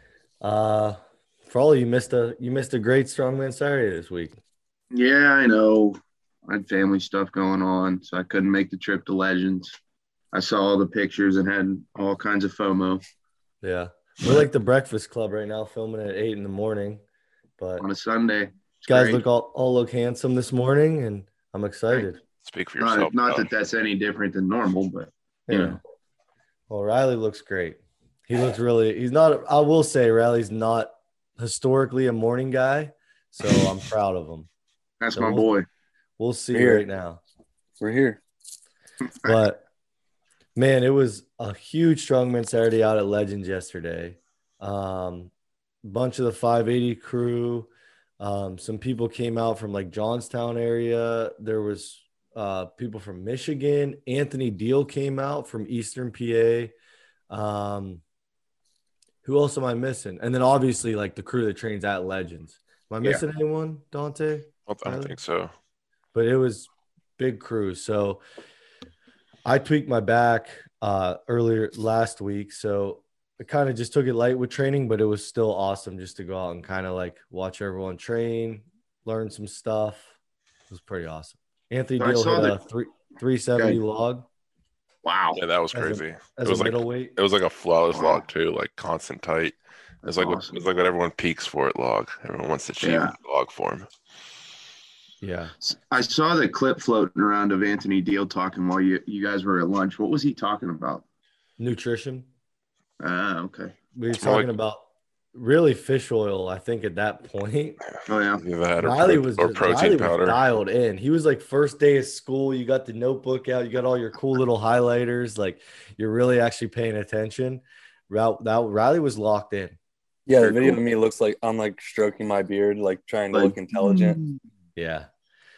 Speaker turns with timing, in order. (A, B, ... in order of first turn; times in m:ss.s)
0:00.4-0:04.4 A
0:04.9-0:09.7 B
0:10.3-0:13.0 B
0:13.6-0:17.0 A
0:17.6-0:17.8 A
0:17.8-0:19.2 B
0:18.9-0:22.2 A
0:22.4-0:23.5 C
0:22.8-0:25.8 B
0:25.5-0:25.8 A
0:26.7-0:34.5 A
0:35.0-0:35.7 B
0:35.1-0:35.5 A
0:36.2-0:37.2 A
0:36.5-0:36.8 D
0:37.8-0:38.2 D
0:39.2-0:39.6 A
0:40.5-0:45.3 A
0:45.8-0:56.7 A
0:57.3-0:58.0 A
0:59.2-1:05.2 A
1:04.7-1:05.5 C
1:06.1-1:08.2 A
1:09.4-1:20.1 A
1:20.7-1:24.2 A
1:22.0-1:22.6 B
1:25.0-1:25.4 B
1:25.3-1:33.9 C
1:25.7-1:27.1 A
1:27.9-1:28.2 B
1:30.0-1:30.6 B
1:32.8-1:33.1 B
1:35.2-1:35.5 A
1:35.6-1:41.0 B
1:41.6-1:42.3 A
1:43.0-1:43.8 B
1:43.9-1:47.8 A
1:44.2-1:44.5 C
1:48.1-1:48.4 B
1:48.4-1:50.4 C
1:48.8-1:59.8 A
2:00.2-2:04.2 D
2:00.4-2:00.8 B
2:03.3-2:04.4 B
2:04.8-2:05.1 A